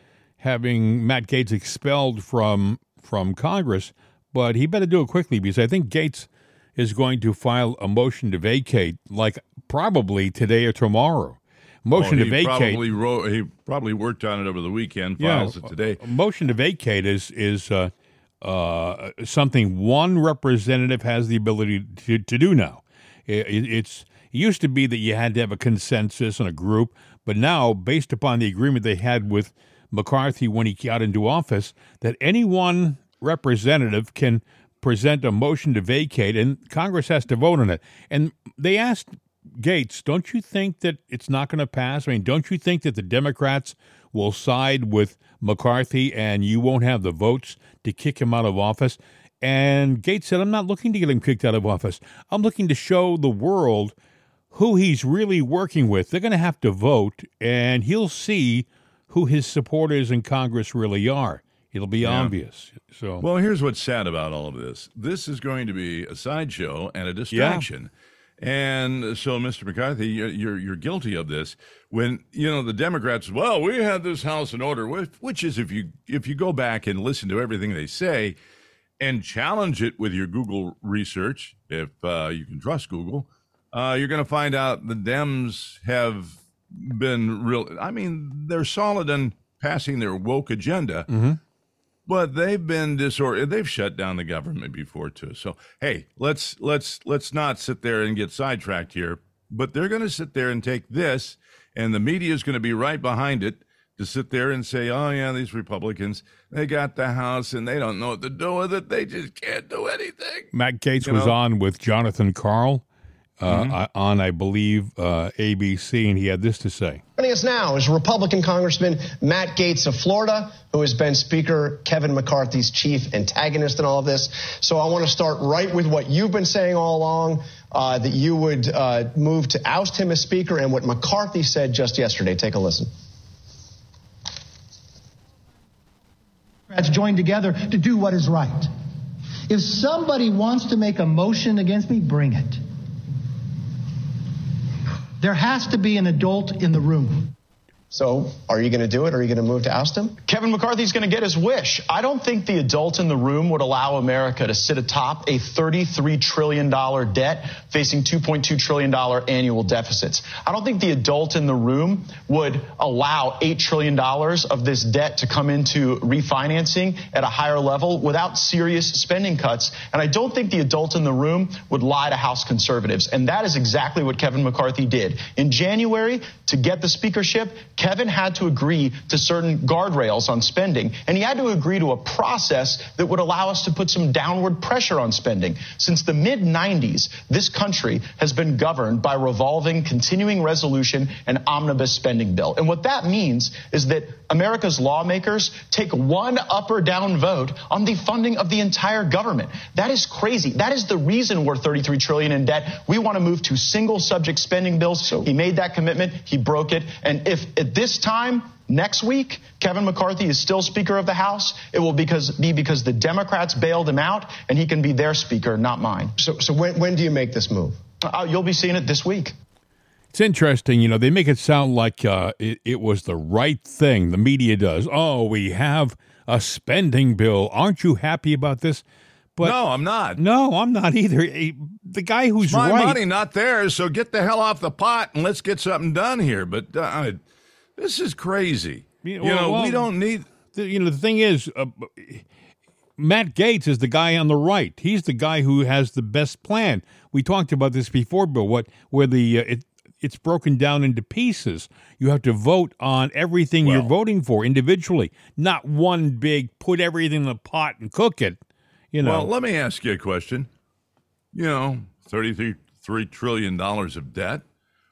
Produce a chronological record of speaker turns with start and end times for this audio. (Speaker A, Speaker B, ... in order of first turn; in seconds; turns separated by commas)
Speaker A: 0.4-12.8, Speaker B: 11.9-16.0, Speaker A: 15.2-53.9, Speaker A: 54.5-63.2, Speaker B: 62.0-62.3, Speaker B: 63.2-78.3, Speaker A: 67.3-67.7, Speaker B: 79.0-91.1, Speaker A: 91.1-91.4, Speaker B: 92.1-110.5, Speaker A: 110.5-112.8, Speaker B: 111.0-111.3, Speaker A: 113.4-117.0, Speaker B: 113.5-113.8, Speaker C: 117.2-132.9, Speaker D: 136.7-138.7, Speaker D: 139.5-142.6, Speaker D: 145.2-147.3, Speaker C: 147.9-150.2, Speaker E: 150.2-216.1, Speaker C: 216.2-217.8, Speaker E: 218.0-219.3, Speaker A: 220.1-228.8, Speaker B: 229.4-230.2, Speaker A: 230.2-233.0, Speaker B: 232.4-237.2, Speaker B: 237.8-240.3, Speaker A: 239.0-239.9, Speaker A: 240.5-242.2, Speaker A: 243.0-258.4, Speaker B: 253.6-253.9, Speaker A: 258.9-259.3, Speaker B: 259.0-260.5, Speaker B: 261.3-264.4